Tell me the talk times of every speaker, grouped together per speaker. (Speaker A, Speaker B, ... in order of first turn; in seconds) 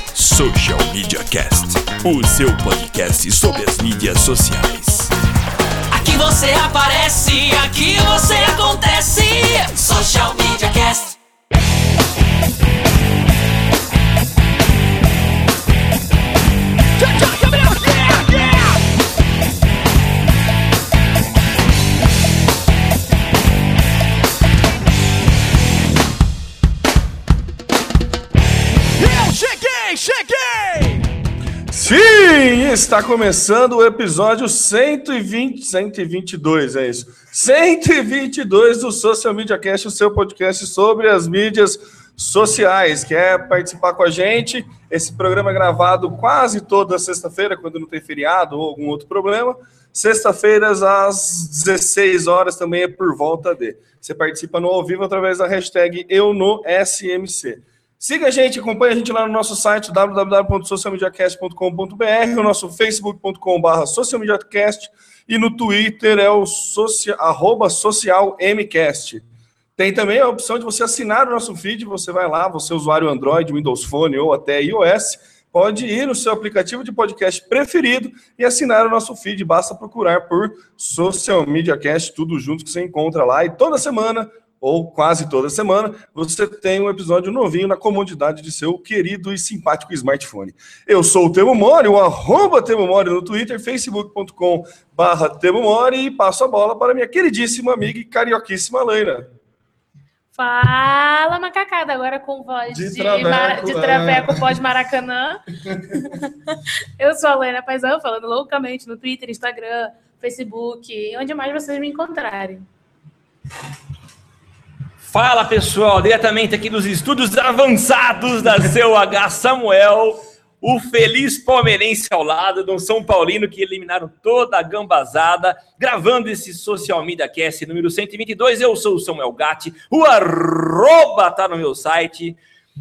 Speaker A: 0.1-5.1, 17.5-18.1, 29.0-31.1
Speaker B: 5.9-11.2
Speaker C: 31.7-69.2, 69.8-99.3, 102.7-104.6, 105.7-106.1
Speaker D: 100.3-112.7
Speaker E: 115.0-132.4